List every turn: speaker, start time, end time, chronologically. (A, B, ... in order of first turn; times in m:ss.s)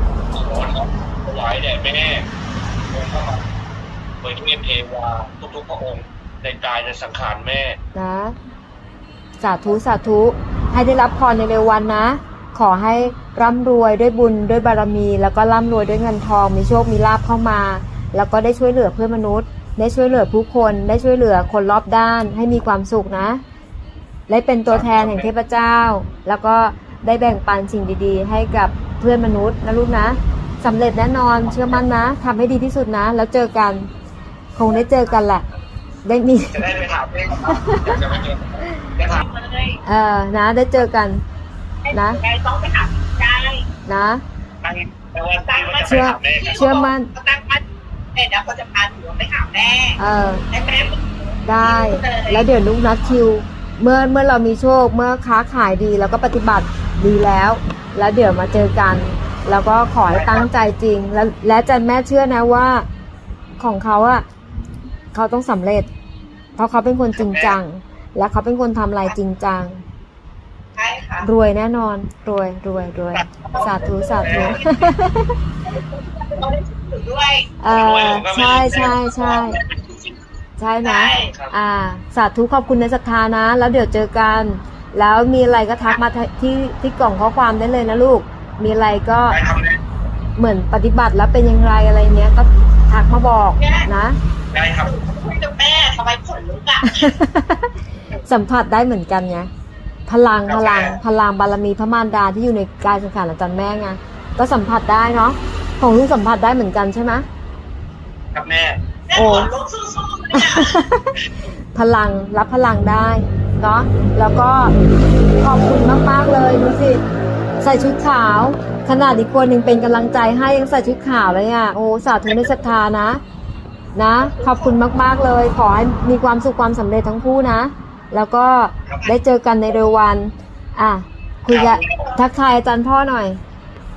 0:00.3-0:02.3 A
0:02.9-0:03.4 A
0:04.2-0:07.8 A
0:08.0-0:08.4 B
0:09.4-0:23.4 B
0:24.3-0:33.9 B
0:24.7-0:25.3 A
0:31.5-0:31.8 A
0:34.6-0:35.5 B
0:36.0-0:36.6 B
0:36.5-0:39.2 A
0:37.4-0:38.0 B
0:38.6-0:38.9 B
0:39.1-0:39.8 C
0:39.8-0:41.2 B
0:41.8-0:43.7 C
0:41.9-0:42.2 B
0:43.9-0:44.2 B
0:44.6-0:46.7 A
0:45.5-0:47.6 C
0:45.9-0:47.1 B
0:48.1-0:50.0 C
0:50.0-0:50.5 B
0:50.5-0:51.0 C
0:51.5-1:02.9 B
0:51.6-0:52.6 C
1:00.1-1:00.5 C
1:03.6-1:04.2 B
1:05.1-1:05.9 B
1:06.6-1:09.8 B
1:07.1-1:07.6 A
1:10.8-1:11.3 C
1:11.2-1:15.3 B
1:13.1-1:14.6 A
1:13.6-1:14.9 C
1:15.7-1:17.5 C
1:17.6-1:19.6 B
1:17.7-1:19.1 A
1:18.8-1:20.2 C
1:20.6-1:29.4 B
1:20.8-1:21.3 C
1:21.3-1:21.5 A
1:29.3-1:29.8 A
1:30.4-1:34.2 B
1:33.6-1:33.9 C
1:34.5-1:34.9 A
1:34.8-1:37.1 C
1:36.8-1:39.5 B
1:40.1-1:47.3 B
1:40.5-1:41.0 A
1:48.4-1:48.8 A
1:49.1-1:50.8 C
1:49.1-1:49.5 B
1:50.3-1:51.1 B
1:51.7-1:54.8 B
1:55.4-1:57.0 B
1:57.6-2:03.2 B
2:04.0-2:13.4 B
2:04.2-2:04.8 C
2:11.5-2:12.1 A
2:11.8-2:12.2 C